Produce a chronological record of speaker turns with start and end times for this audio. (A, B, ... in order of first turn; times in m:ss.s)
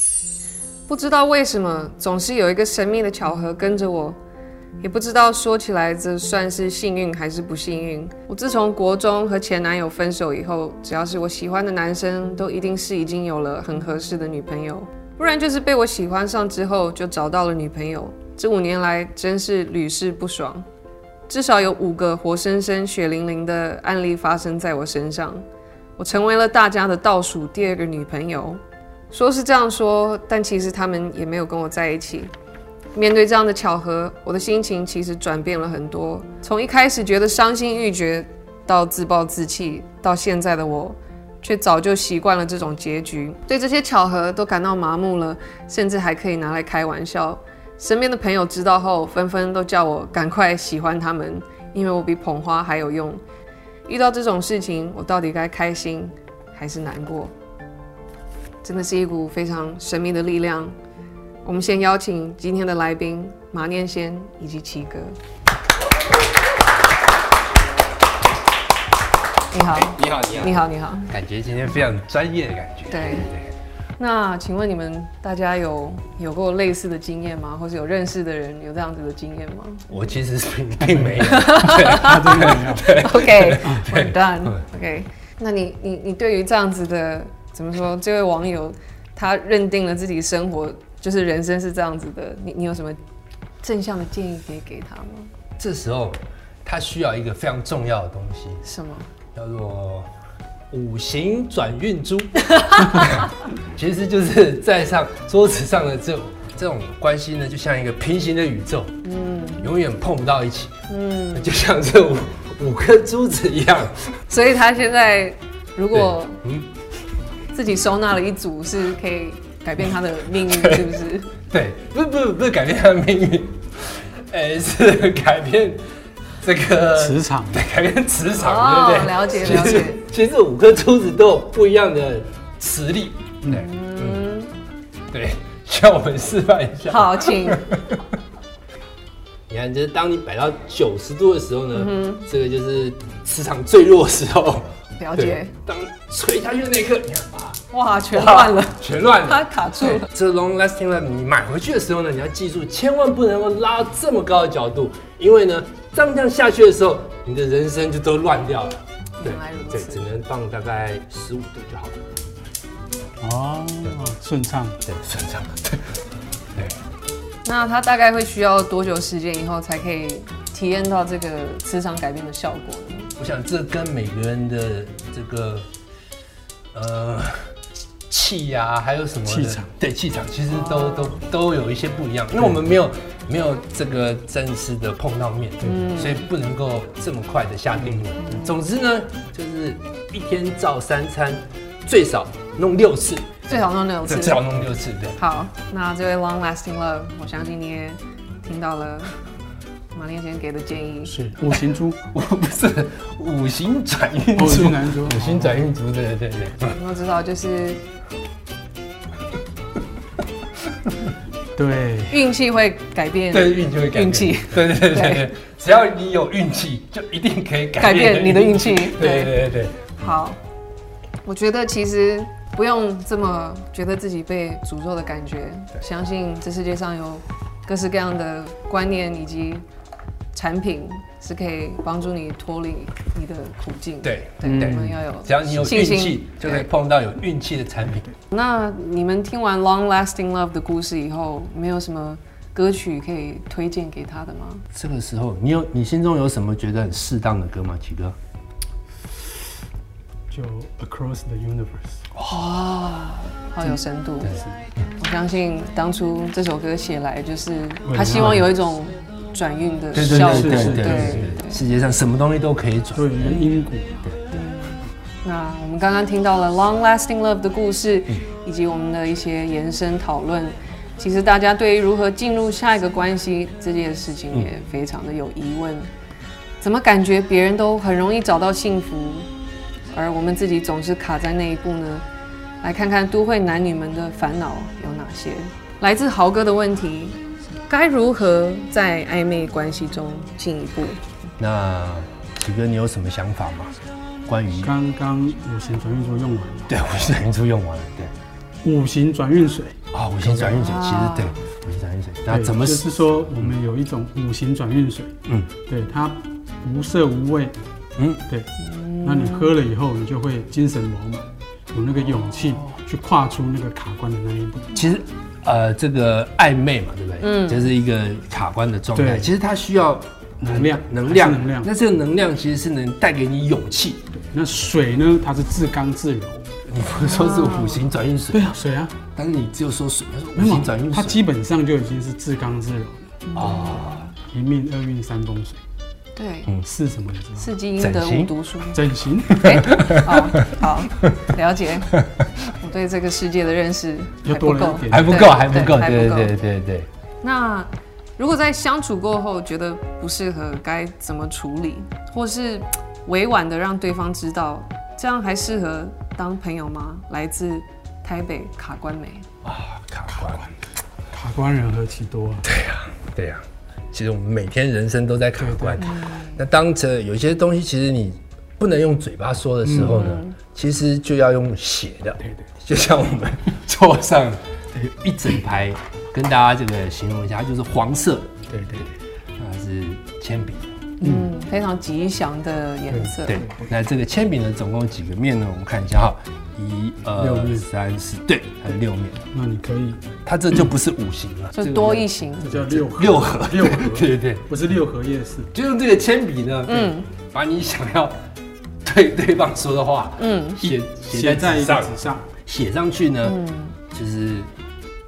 0:00.9-0:04.2 A
0:04.8-0:20.6 A
0:21.3-0:25.4 A
0:26.0-0:32.3 A
0:32.9-0:53.2 A
0:53.8-0:57.3 A
0:58.6-1:00.8 A
1:01.4-1:05.2 A
1:09.5-1:11.1 A
1:09.6-1:13.5 B
1:12.9-1:13.3 A
1:14.0-1:19.9 A
1:19.9-1:24.6 B
1:20.8-1:23.0 C
1:21.2-1:33.0 A
1:33.6-1:35.3 A
1:35.6-1:38.6 B
1:38.6-1:39.1 A
1:39.3-1:40.1 B
1:40.7-1:49.0 B
1:49.0-1:49.7 A
1:49.6-1:54.2 B
1:50.9-1:51.5 A
1:54.3-1:56.4 A
1:55.9-1:56.7 B
1:57.5-2:01.3 A
2:00.4-2:01.0 B
2:01.5-2:05.8 B
2:06.4-2:14.2 B
2:07.0-2:07.6 C
2:08.4-2:10.0 A
2:13.5-2:14.5 A
2:15.1-2:18.0 B
2:16.9-2:17.6 A
2:19.5-2:27.6 B
2:21.7-2:22.2 A
2:25.0-2:25.5 A
2:27.7-2:30.1 A
2:28.1-2:42.0 B
2:39.2-2:40.1 A
2:43.2-2:44.8 C
2:44.8-2:45.9 B
2:47.4-2:53.1 A
2:53.2-2:55.7 B
2:56.7-2:57.5 B
2:58.1-3:15.2 B
2:59.3-2:59.7 C
3:00.5-3:01.2 A
3:05.6-3:06.2 A
3:08.2-3:08.6 A
3:13.5-3:14.4 A
3:15.2-3:19.2 A
3:19.9-3:21.2 A
3:21.1-3:22.0 C
3:22.1-3:26.8 B
3:24.4-3:25.6 C
3:26.6-3:27.8 A
3:31.6-3:32.2 C
3:32.1-3:35.2 A
3:33.3-3:39.8 B
3:37.8-3:39.3 A
3:39.9-3:40.4 A
3:41.2-3:49.6 A
3:50.3-3:56.7 A
3:54.0-3:58.1 B
3:54.4-3:55.0 C
3:58.3-4:04.6 A
4:04.7-4:08.2 B
4:10.3-4:12.0 C
4:12.1-4:12.6 B
4:12.3-4:14.4 A
4:14.3-4:14.5 C
4:15.0-4:21.6 A
4:17.8-4:18.5 C
4:19.9-4:23.2 B
4:20.0-4:21.3 C
4:22.9-4:23.9 C
4:23.2-4:23.6 A
4:24.3-4:35.9 A
4:36.6-4:39.3 A
4:39.9-4:42.0 A
4:42.6-4:51.0 A
4:51.4-4:53.7 B
4:54.2-4:54.7 B
4:54.6-4:56.7 C
4:56.7-4:58.1 B
4:58.6-5:00.6 C
4:59.9-5:02.9 B
5:00.6-5:01.4 A
5:02.3-5:05.1 C
5:05.6-5:07.6 C
5:08.0-5:08.2 B
5:08.6-5:09.6 A
5:09.0-5:14.8 C
5:14.7-5:24.0 B
5:17.2-5:17.7 A
5:18.9-5:19.3 C
5:20.4-5:21.7 C
5:24.1-5:26.5 C
5:26.6-5:28.5 B
5:26.9-5:27.9 A
5:28.3-5:29.0 C
5:29.1-5:31.2 B
5:30.4-5:33.2 C
5:33.2-5:34.1 A
5:33.4-5:34.1 B
5:34.2-5:35.6 C
5:36.1-5:36.5 A
5:36.6-5:37.5 C
5:37.4-5:46.3 A
5:37.8-5:38.3 B
5:38.7-5:39.5 C
5:39.4-5:40.1 B
5:44.2-5:45.8 C
5:44.9-5:46.9 B
5:47.2-5:59.3 A
5:59.4-6:00.4 B
6:00.1-6:00.5 C
6:01.1-6:02.5 C
6:02.4-6:18.4 B
6:05.4-6:05.9 C
6:05.8-6:06.4 A
6:09.6-6:10.0 C
6:09.8-6:10.4 A
6:12.2-6:12.5 C
6:18.5-6:18.9 C
6:19.4-6:20.7 B
6:21.0-6:23.4 A
6:21.0-6:21.3 C
6:22.9-6:23.7 C
6:23.2-6:29.2 B
6:27.2-6:27.7 C
6:29.3-6:30.0 C
6:30.2-6:32.1 B
6:31.5-6:32.8 A
6:32.4-6:35.5 C
6:32.8-6:34.4 B
6:35.5-6:38.2 B
6:36.7-6:37.1 A
6:38.8-6:43.4 B
6:40.2-6:40.6 A
6:40.6-6:42.3 C
6:43.2-6:43.8 A
6:43.9-6:44.5 B